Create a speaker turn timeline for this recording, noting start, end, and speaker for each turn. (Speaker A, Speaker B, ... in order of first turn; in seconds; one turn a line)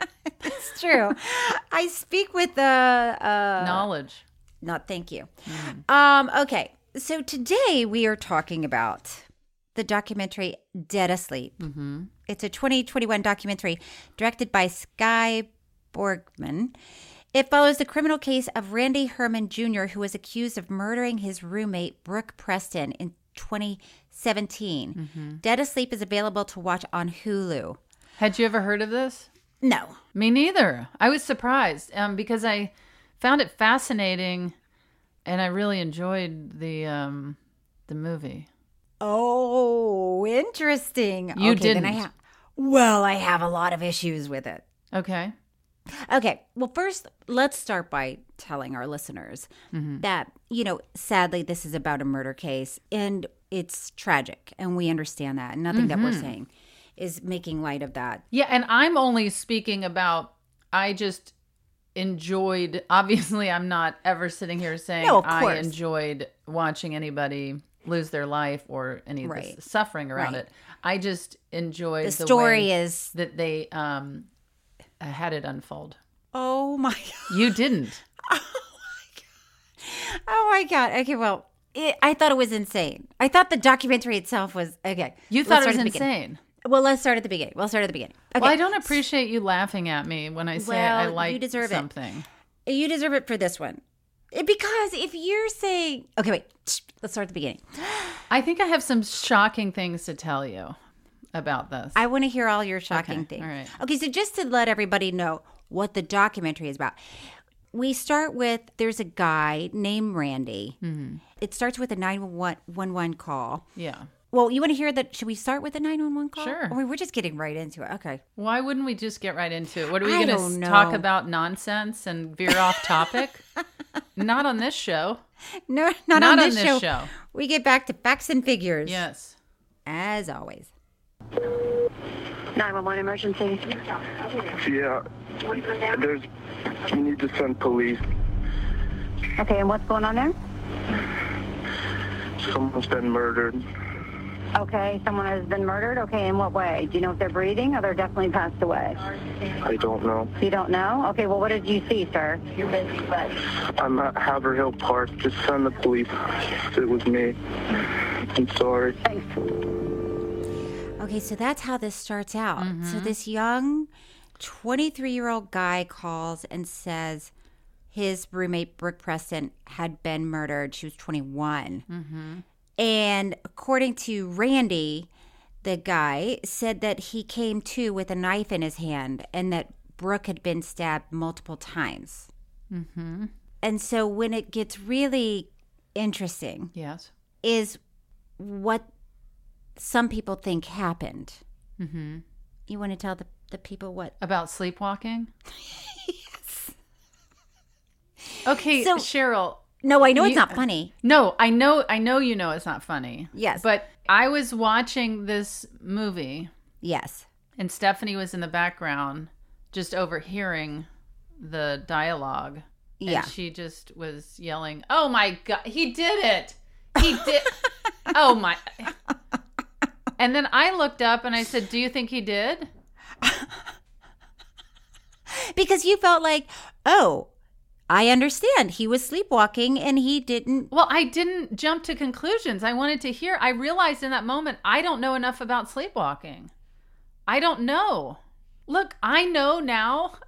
Speaker A: 0.4-3.9
Speaker B: 3.6-4.2
Speaker A: 4.6-11.6
Speaker B: 5.5-5.8
Speaker B: 11.6-12.1
Speaker A: 12.3-16.8
Speaker A: 17.3-27.8
Speaker B: 25.0-25.4
Speaker B: 28.2-29.3
Speaker A: 29.6-30.0
Speaker B: 30.1-34.5
Speaker B: 35.2-38.5
Speaker A: 39.0-44.6
Speaker B: 41.4-42.0
Speaker B: 44.9-45.3
Speaker A: 45.9-58.2
Speaker B: 49.7-50.0
Speaker B: 55.7-56.4
Speaker B: 58.3-61.3
Speaker B: 62.0-74.3
Speaker A: 65.0-65.8
Speaker A: 69.2-69.6
Speaker A: 70.2-70.4
Speaker A: 72.0-73.1
Speaker B: 75.0-76.0
Speaker A: 76.3-77.5
Speaker B: 77.3-78.0
Speaker A: 78.2-79.0
Speaker A: 79.8-88.9
Speaker B: 85.3-86.4
Speaker B: 88.4-92.3
Speaker A: 90.6-91.9
Speaker A: 92.7-98.2
Speaker B: 98.3-100.8
Speaker B: 101.3-102.0
Speaker A: 102.0-107.0
Speaker B: 102.9-103.7
Speaker A: 107.7-110.8
Speaker B: 110.8-111.2
Speaker A: 111.4-113.7
Speaker B: 113.8-114.1
Speaker A: 114.3-118.2
Speaker B: 116.4-116.8
Speaker B: 118.4-123.4
Speaker A: 120.0-121.1
Speaker B: 124.2-125.2
Speaker A: 125.7-129.1
Speaker B: 126.2-127.1
Speaker B: 128.8-129.4
Speaker A: 129.9-130.7
Speaker C: 132.6-133.6
Speaker D: 134.5-136.3
Speaker D: 136.8-138.0
Speaker C: 139.4-140.3
Speaker D: 142.4-143.6
Speaker C: 144.6-149.0
Speaker D: 149.6-150.3
Speaker C: 150.4-153.3
Speaker D: 153.8-157.3
Speaker D: 158.2-159.0
Speaker A: 161.0-167.3
Speaker B: 162.6-163.2
Speaker A: 167.9-171.8
Speaker B: 171.9-172.4
Speaker A: 172.8-175.1
Speaker A: 175.6-182.3
Speaker B: 182.7-183.3
Speaker A: 183.6-186.7
Speaker B: 186.7-187.1
Speaker A: 187.4-187.8
Speaker A: 188.4-188.9
Speaker A: 189.8-191.4
Speaker B: 191.8-192.2
Speaker A: 192.7-194.1
Speaker B: 194.2-195.3
Speaker A: 195.8-196.7
Speaker B: 198.4-206.5
Speaker A: 198.7-199.1
Speaker A: 199.8-200.9
Speaker A: 203.3-203.7
Speaker A: 206.8-207.3
Speaker B: 207.6-218.9
Speaker A: 213.0-213.3
Speaker B: 220.2-222.7
Speaker A: 223.2-223.6
Speaker A: 225.3-227.3
Speaker A: 227.9-230.7
Speaker B: 230.7-236.5
Speaker B: 237.3-240.2